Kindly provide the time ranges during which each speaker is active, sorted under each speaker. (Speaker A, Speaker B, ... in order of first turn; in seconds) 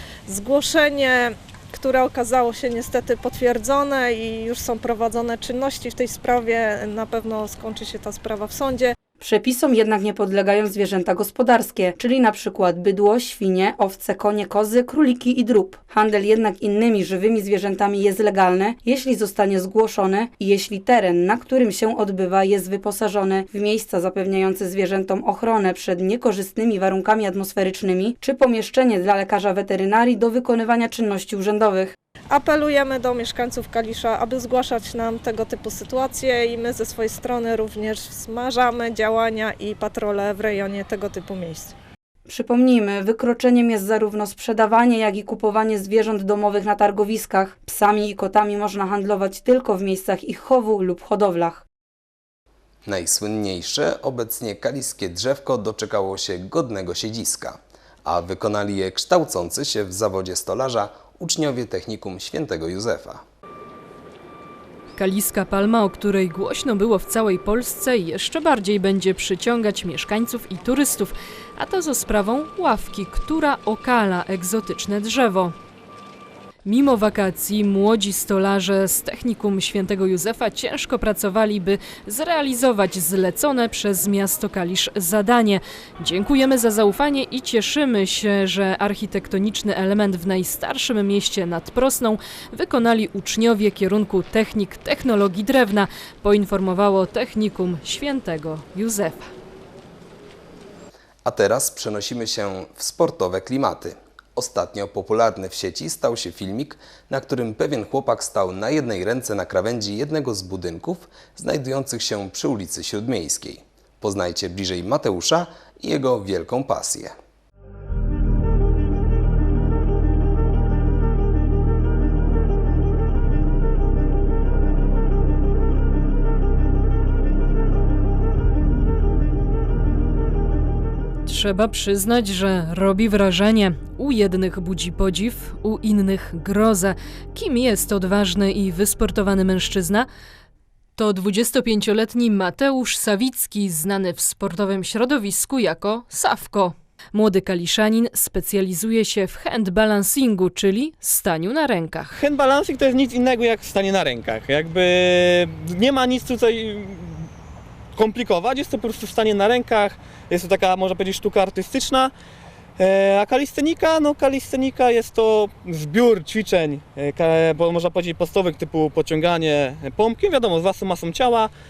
Speaker A: 0.3-8.9, 32.3-41.7
Speaker B: 9.2-31.9, 42.3-51.6
Speaker C: 52.9-63.2, 101.2-117.2
Speaker D: 65.0-75.5, 76.7-99.3, 131.3-140.1, 141.0-152.2
Speaker E: 152.1-157.3, 157.9-162.1, 162.8-171.5